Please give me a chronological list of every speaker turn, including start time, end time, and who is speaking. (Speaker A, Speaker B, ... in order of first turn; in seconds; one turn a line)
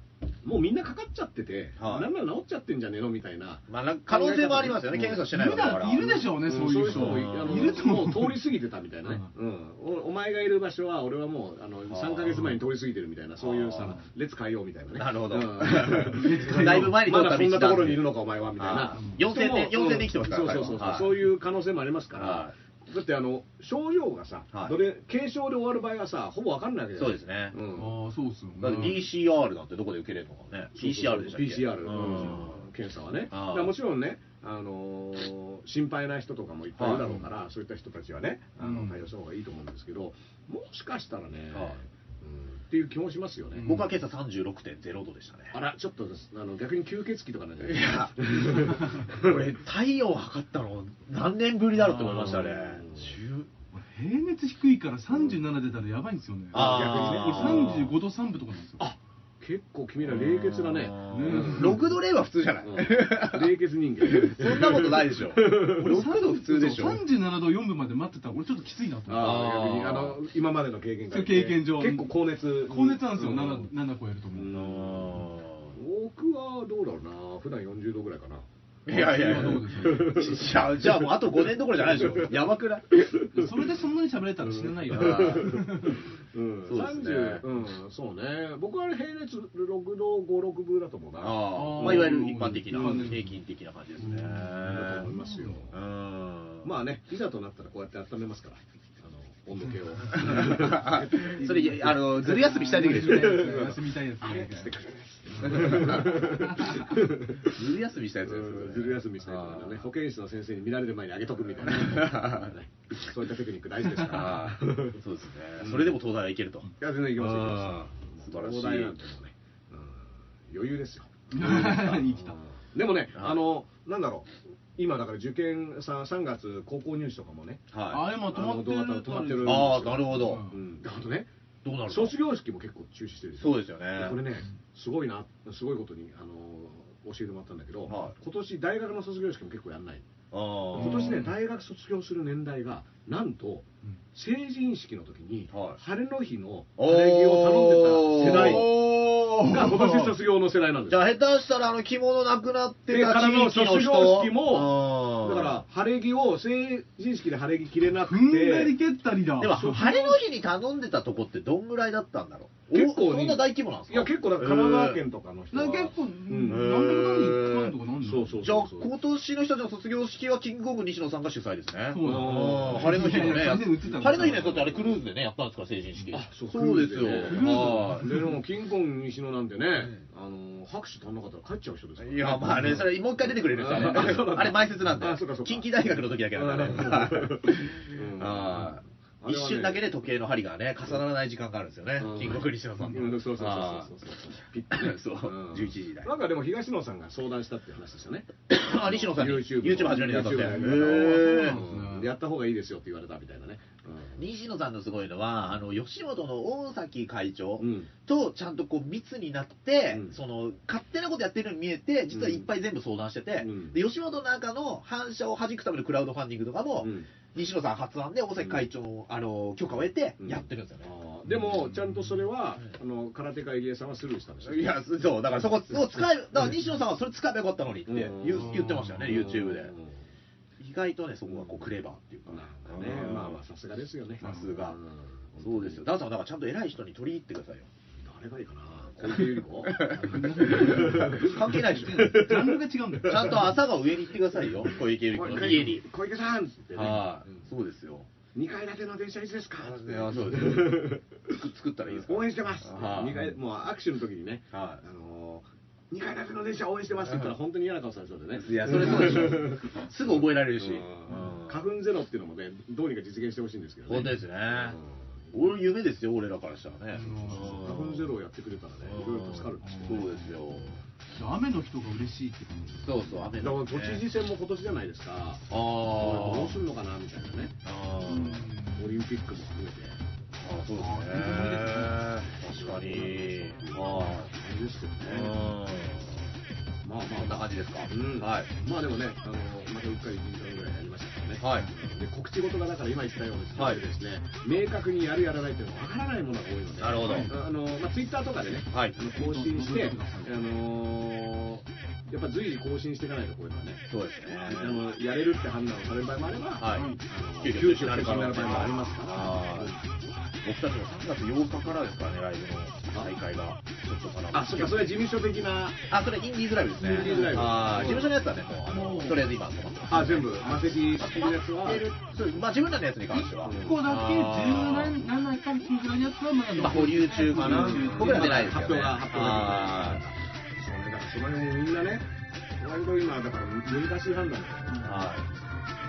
Speaker A: 0.4-5.2
Speaker B: 1.8-2.1
Speaker B: 3.7-7.8
Speaker C: 5.0-8.5
Speaker A: 6.4-27.9
Speaker B: 11.9-12.4
Speaker B: 13.4-14.0
Speaker B: 14.9-21.2
Speaker C: 15.8-17.0
Speaker B: 22.1-22.5
Speaker B: 24.5-24.8
Speaker B: 26.9-27.6
Speaker C: 27.7-29.1
Speaker B: 28.6-32.6
Speaker A: 30.7-43.8
Speaker B: 33.3-33.7
Speaker B: 36.8-37.1
Speaker C: 38.6-39.0
Speaker B: 41.5-41.8
Speaker C: 43.5-43.9
Speaker B: 43.6-45.5
Speaker A: 45.5-49.5
Speaker B: 47.6-53.5
Speaker A: 51.9-53.2
Speaker C: 52.0-52.3
Speaker C: 53.7-58.9
Speaker A: 56.5-57.9
Speaker B: 56.5-57.9
Speaker A: 58.8-61.9
Speaker B: 60.0-67.0
Speaker C: 61.1-61.9
Speaker A: 62.6-66.0
Speaker C: 65.7-69.4
Speaker A: 69.1-73.7
Speaker B: 69.1-70.2
Speaker C: 71.1-74.5
Speaker A: 74.3-75.2
Speaker B: 74.5-75.8
Speaker A: 75.7-83.7
Speaker B: 78.9-82.9
Speaker C: 78.9-80.4
Speaker C: 83.2-86.1
Speaker A: 84.5-92.2
Speaker B: 84.9-85.6
Speaker B: 86.7-87.5
Speaker B: 91.2-95.1
Speaker C: 91.5-93.4
Speaker C: 94.0-95.6
Speaker A: 94.6-95.8
Speaker B: 95.7-96.7
Speaker A: 96.6-101.5
Speaker B: 100.1-103.5
Speaker C: 101.1-104.8
Speaker A: 103.0-107.7
Speaker C: 105.4-106.5
Speaker B: 105.4-109.8
Speaker A: 108.2-115.0
Speaker B: 111.7-112.5
Speaker B: 113.9-118.9
Speaker A: 115.6-116.0
Speaker A: 116.8-127.6
Speaker C: 121.3-122.4
Speaker B: 123.1-123.4
Speaker B: 127.7-128.1
Speaker C: 127.9-130.6
Speaker A: 128.3-131.3
Speaker B: 129.4-130.4
Speaker B: 131.6-132.2
Speaker A: 131.9-140.1
Speaker B: 133.4-134.2
Speaker B: 137.8-138.1
Speaker B: 140.3-141.2
Speaker A: 140.7-148.8
Speaker C: 140.8-141.3
Speaker B: 145.5-145.8
Speaker B: 146.8-149.6
Speaker C: 148.2-150.1
Speaker A: 149.4-151.1
Speaker B: 150.9-155.6
Speaker A: 152.9-158.7
Speaker C: 157.9-160.2
Speaker B: 159.4-165.0
Speaker A: 162.7-166.7
Speaker C: 165.5-168.4
Speaker B: 166.4-167.8
Speaker A: 168.0-168.9
Speaker B: 168.4-178.2
Speaker C: 171.9-174.7
Speaker A: 172.0-173.4
Speaker A: 174.3-174.6
Speaker A: 176.1-185.7
Speaker C: 177.2-178.3
Speaker B: 182.0-193.9
Speaker A: 186.3-189.8
Speaker A: 192.0-204.2
Speaker B: 194.7-196.1
Speaker B: 198.5-201.6
Speaker C: 200.3-202.1
Speaker B: 204.2-220.9
Speaker A: 207.6-207.9
Speaker A: 209.9-210.2
Speaker A: 212.1-212.5
Speaker A: 213.4-213.8
Speaker A: 216.8-217.1
Speaker A: 220.2-224.8
Speaker B: 224.4-229.7
Speaker A: 225.7-226.6
Speaker A: 227.8-230.0
Speaker C: 228.3-229.3
Speaker B: 230.6-233.4
Speaker A: 231.3-231.6
Speaker A: 232.3-235.8
Speaker B: 234.2-234.8
Speaker C: 234.2-234.5
Speaker B: 235.4-237.7
Speaker A: 238.0-243.4
Speaker B: 239.0-242.5
Speaker C: 239.9-243.6
Speaker B: 243.0-245.8
Speaker A: 245.1-247.5
Speaker B: 246.7-248.1
Speaker A: 248.3-251.1
Speaker B: 249.6-253.3
Speaker A: 251.8-265.3
Speaker B: 254.5-254.8
Speaker B: 257.1-257.4
Speaker B: 258.4-261.6
Speaker C: 258.9-259.2
Speaker B: 263.9-264.8
Speaker B: 265.3-268.1
Speaker C: 266.9-267.7
Speaker A: 267.3-270.3
Speaker B: 268.9-270.8
Speaker C: 269.6-270.3
Speaker C: 271.1-273.3
Speaker B: 272.8-274.1
Speaker A: 273.3-277.6
Speaker B: 275.5-276.6
Speaker B: 277.6-278.5
Speaker C: 278.1-278.9
Speaker A: 278.7-280.0
Speaker B: 280.4-284.3
Speaker C: 280.8-282.2
Speaker A: 282.3-285.5
Speaker B: 285.0-286.3
Speaker A: 286.8-309.8
Speaker B: 287.1-288.5
Speaker B: 291.4-291.7
Speaker B: 293.6-293.8
Speaker B: 296.8-297.3
Speaker C: 297.0-297.3
Speaker C: 299.1-300.4
Speaker B: 303.9-304.8
Speaker B: 306.6-306.9
Speaker C: 306.7-307.0
Speaker B: 307.4-309.7
Speaker B: 310.4-315.1
Speaker A: 314.3-315.8
Speaker B: 315.9-324.9
Speaker A: 316.8-318.1
Speaker C: 316.8-317.6
Speaker C: 318.7-319.3
Speaker A: 319.9-321.9
Speaker C: 323.1-328.7
Speaker A: 323.4-323.8
Speaker B: 326.6-330.0
Speaker A: 327.3-334.9
Speaker B: 334.8-335.3